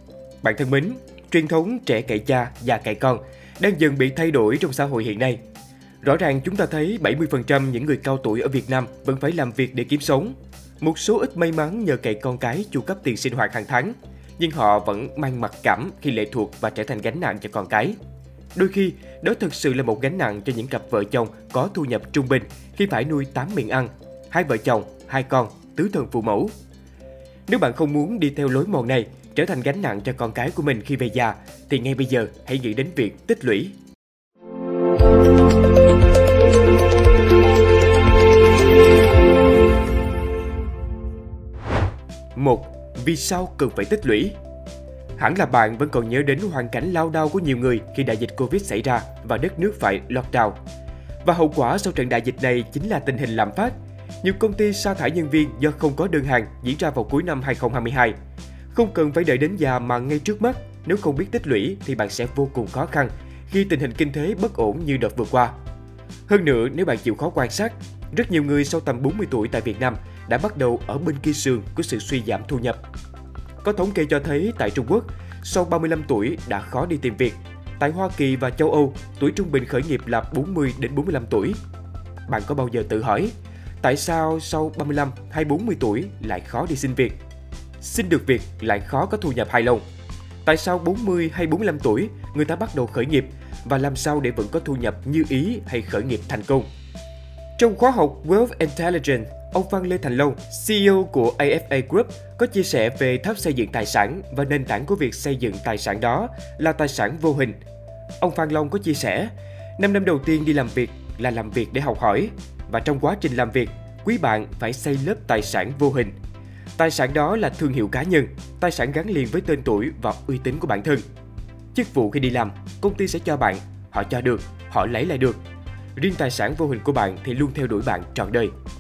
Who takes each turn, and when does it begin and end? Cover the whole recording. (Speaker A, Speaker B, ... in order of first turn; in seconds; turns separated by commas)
Speaker A: 0.4-5.4, Speaker A: 6.0-18.0, Speaker A: 18.6-26.5, Speaker A: 27.5-33.7, Speaker A: 42.4-44.4, Speaker A: 45.2-50.6, Speaker A: 51.2-58.1, Speaker A: 58.7-65.5, Speaker A: 66.3-72.8, Speaker A: 73.6-81.6, Speaker A: 82.3-87.2, Speaker A: 87.8-89.8, Speaker A: 90.5-96.7, Speaker A: 97.6-107.6, Speaker A: 108.2-116.1, Speaker A: 116.8-121.0, Speaker A: 121.7-125.4, Speaker A: 126.0-128.5